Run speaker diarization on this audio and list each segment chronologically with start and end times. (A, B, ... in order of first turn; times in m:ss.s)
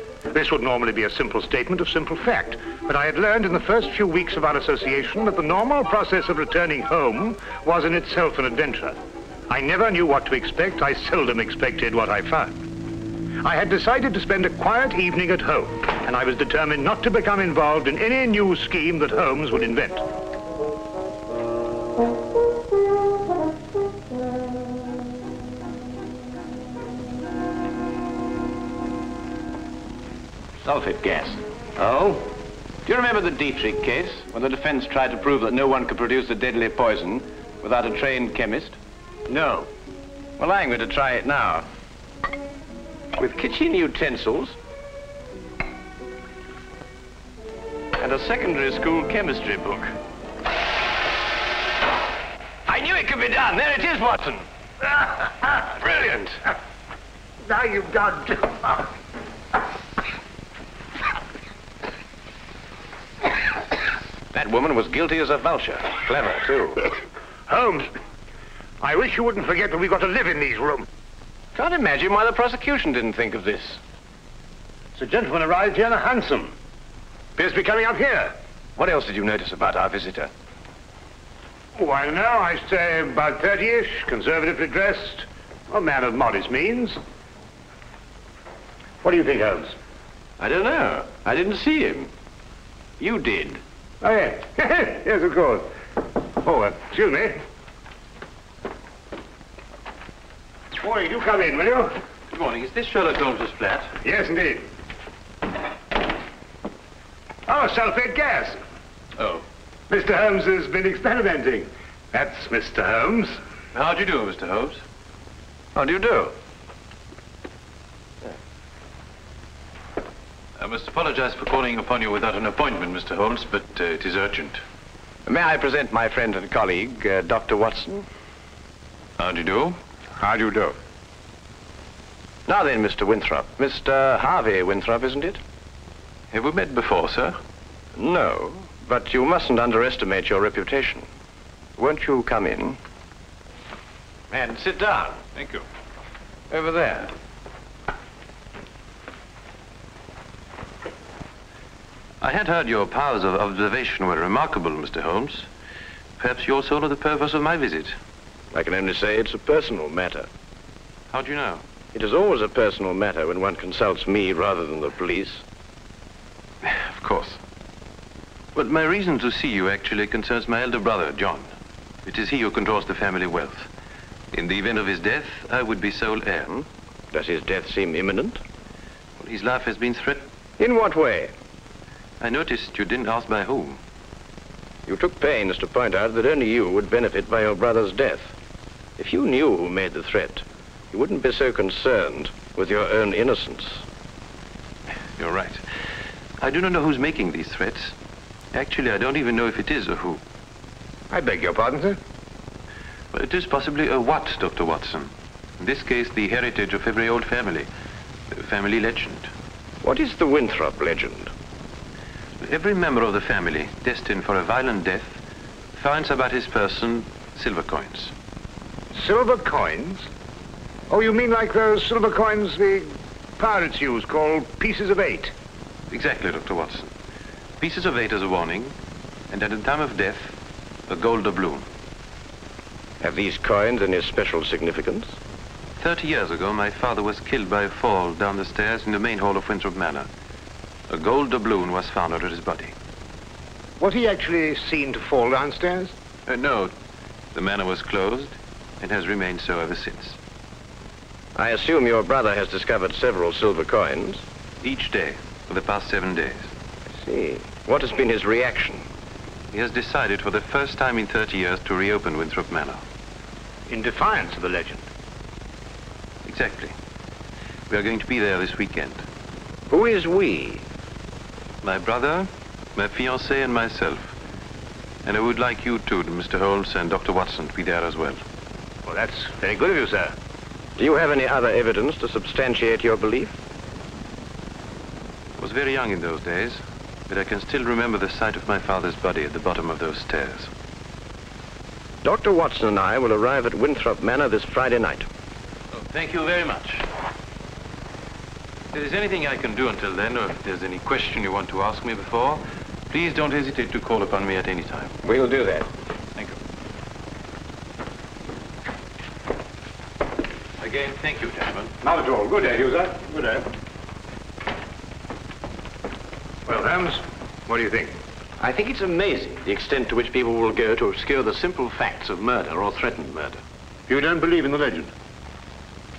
0:00.3-0:09.0 A
0:09.5-0:12.5 A
0:13.4-0:20.1 A
0:30.6-0:32.2 B
0:32.8-0:39.7 B
0:40.4-0:41.7 B
0:43.2-0:44.6 B
0:48.0-0:50.0 B
0:52.6-0:54.4 B
0:55.6-0:56.4 B
0:57.4-0:58.9 A
1:04.3-1:06.9 B
1:07.5-1:07.9 A
1:08.8-1:10.9 A
1:11.5-1:13.8 B
1:14.9-1:16.5 A
1:17.4-1:18.3 A
1:18.8-1:20.3 B
1:21.7-1:27.0 A
1:29.0-1:29.8 A
1:30.4-1:32.1 B
1:33.0-1:33.6 B
1:34.0-1:35.7 A
1:36.4-1:37.4 A
1:40.7-1:42.0 A
1:42.3-1:43.9 C
1:44.0-1:44.7 A
1:47.4-1:48.6 A
1:49.2-1:49.4 C
1:49.9-1:53.4 A
1:53.7-1:54.8 C
1:55.7-1:56.3 B
2:00.6-2:04.6 C
2:05.2-2:08.0 B
2:09.2-2:09.8 C
2:10.2-2:10.5 B
2:12.5-2:15.4 B
2:16.3-2:17.4 C
2:18.0-2:21.1 B
2:21.8-2:22.8 B
2:24.3-2:25.2 B
2:25.3-2:25.6 C
2:26.5-2:27.1 B
2:32.2-2:35.5 C
2:36.2-2:38.0 C
2:38.5-2:40.3 B
2:41.1-2:41.6 C
2:41.9-2:45.4 B
2:46.6-2:47.4 C
2:48.5-2:51.5 C
2:52.0-2:53.7 C
2:54.3-2:56.6 C
2:57.1-2:58.4 B
2:59.2-3:00.3 C
3:00.6-3:01.3 B
3:02.2-3:03.8 C
3:04.9-3:08.3 B
3:09.0-3:13.8 B
3:15.2-3:15.6 C
3:16.4-3:17.9 C
3:18.5-3:20.2 C
3:21.1-3:22.0 A
3:23.1-3:27.7 C
3:28.3-3:29.3 C
3:29.8-3:31.3 B
3:32.4-3:35.2 C
3:35.7-3:38.1 C
3:38.9-3:40.1 A
3:40.9-3:45.3 A
3:45.9-3:46.9 C
3:47.6-3:48.8 C
3:49.3-3:50.4 C
3:50.9-3:51.6 C
3:53.0-3:55.2 B
3:55.8-4:00.1 C
4:00.9-4:02.7 C
4:03.8-4:05.9 A
4:06.3-4:06.7 C
4:07.3-4:10.2 C
4:11.3-4:14.2 B
4:14.6-4:16.5 C
4:16.9-4:18.9 B
4:19.5-4:22.8 C
4:23.7-4:24.9 A
4:26.2-4:26.7 C
4:27.7-4:29.0 C
4:29.7-4:30.6 B
4:31.6-4:34.1 C
4:35.0-4:38.2 C
4:38.8-4:40.1 A
4:40.8-4:43.4 B
4:45.4-4:50.5 C
4:52.0-4:55.1 B
4:55.7-4:56.9 C
4:58.7-5:05.0 C
5:05.0-5:05.7 B
5:10.6-5:11.7 C
5:11.8-5:13.5 A
5:16.4-5:18.0 A
5:18.4-5:23.4 B
5:23.9-5:24.9 A